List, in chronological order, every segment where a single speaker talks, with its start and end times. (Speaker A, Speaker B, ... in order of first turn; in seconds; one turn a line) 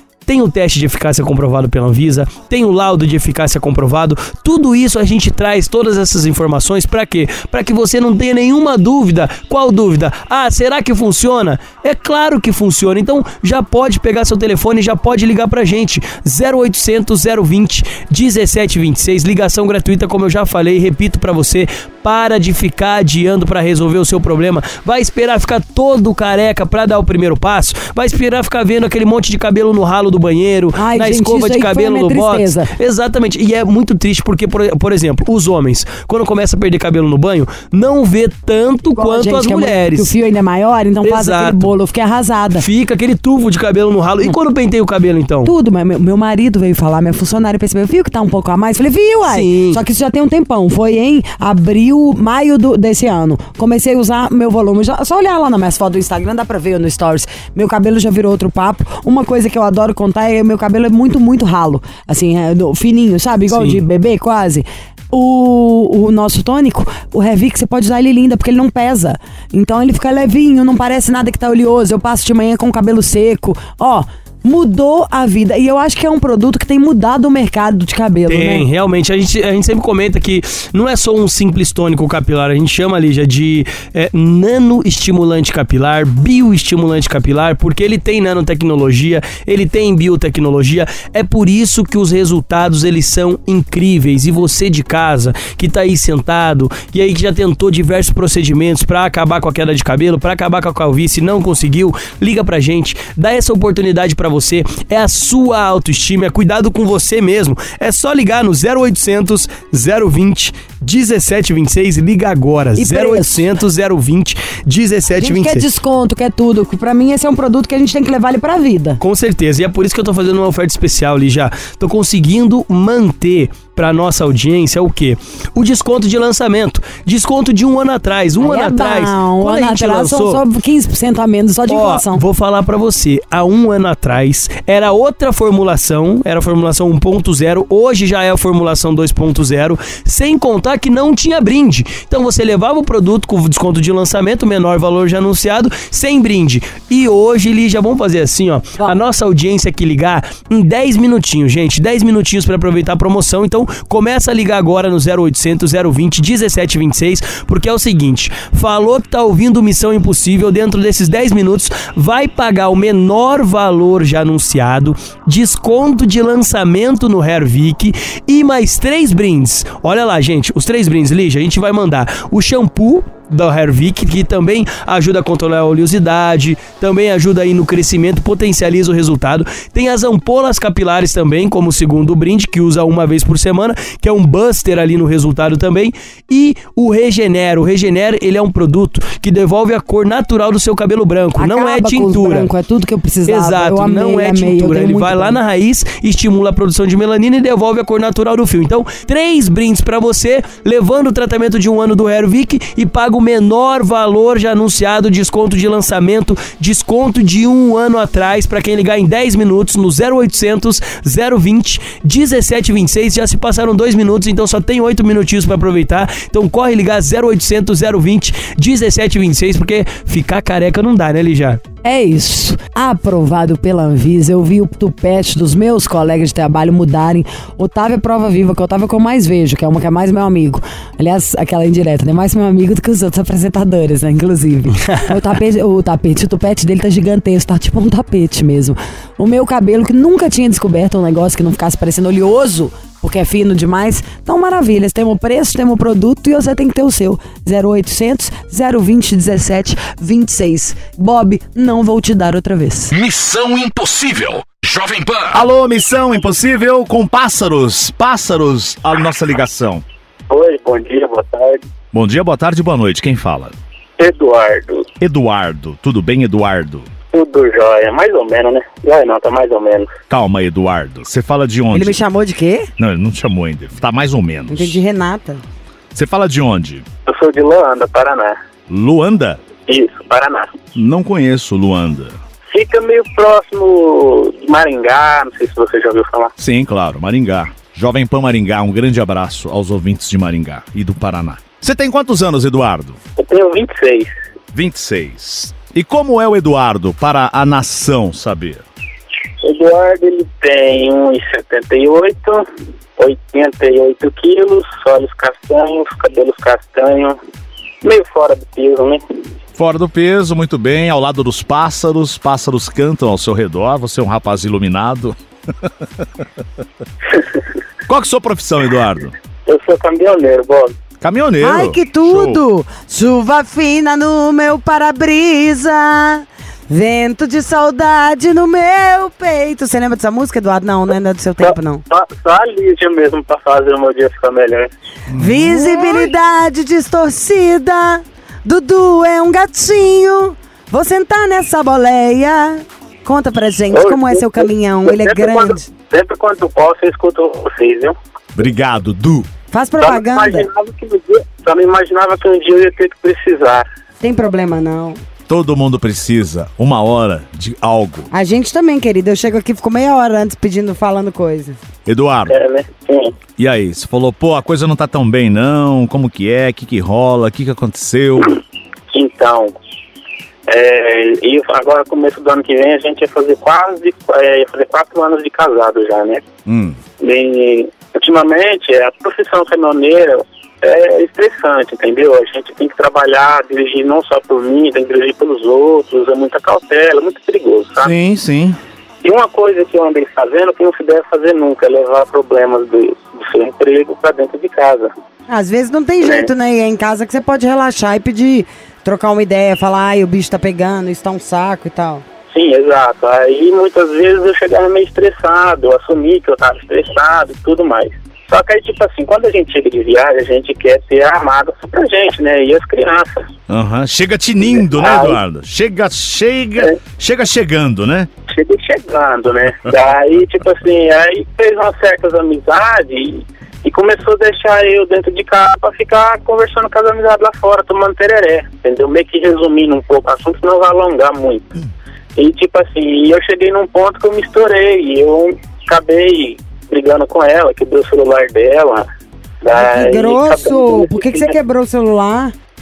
Speaker A: 0.2-40.1
Speaker B: 30.8-32.7
Speaker B: 38.9-42.6
Speaker A: 41.0-41.7
Speaker A: 42.6-45.5
Speaker B: 45.4-78.7
Speaker A: 49.3-49.8
Speaker A: 63.5-63.8
Speaker A: 78.3-115.6
Speaker B: 112.8-113.4
Speaker B: 115.2-119.0
Speaker A: 119.0-130.4
Speaker B: 128.4-132.2
Speaker A: 131.7-192.5
Speaker B: 191.4-195.4
Speaker A: 193.2-221.6
Speaker B: 221.8-252.9
Speaker C: 252.9-255.4
Speaker D: 255.3-259.8
Speaker E: 260.3-261.6
Speaker D: 261.9-263.5
Speaker E: 264.0-264.9
Speaker D: 265.0-266.9
Speaker E: 267.1-269.9
Speaker D: 270.1-272.0
Speaker B: 271.7-272.7
Speaker D: 272.8-274.8
Speaker B: 274.5-275.4
Speaker D: 275.9-276.8
Speaker E: 277.1-278.4
Speaker D: 278.7-279.4
Speaker E: 279.7-280.5
Speaker D: 280.7-282.1
Speaker E: 282.5-286.3
Speaker D: 286.4-293.0
Speaker E: 293.2-294.1
Speaker D: 294.5-298.6
Speaker E: 299.4-302.4
Speaker E: 303.0-307.2
Speaker E: 307.8-309.0
Speaker D: 309.6-315.7
Speaker D: 317.9-319.1
Speaker E: 319.4-320.7
Speaker D: 321.0-322.4
Speaker B: 321.4-331.8
Speaker E: 331.4-334.7
Speaker D: 335.1-335.8
Speaker B: 335.2-345.7
Speaker E: 343.7-347.9
Speaker D: 348.3-349.3
Speaker B: 349.5-350.5
Speaker E: 349.8-353.6
Speaker B: 354.0-355.0
Speaker D: 355.3-358.1
Speaker B: 358.1-361.6
Speaker D: 361.9-362.3
Speaker E: 362.3-363.1
Speaker D: 363.4-368.3
Speaker E: 368.9-369.6
Speaker E: 370.5-376.2
Speaker D: 376.4-376.8
Speaker E: 377.0-387.9
Speaker D: 387.8-388.6
Speaker E: 389.0-394.9
Speaker B: 395.3-402.0
Speaker E: 396.0-396.3
Speaker E: 402.3-413.3
Speaker D: 413.5-418.1
Speaker E: 414.7-415.2
Speaker E: 418.3-431.4
Speaker E: 432.1-438.9
Speaker E: 439.4-441.4
Speaker B: 439.5-442.3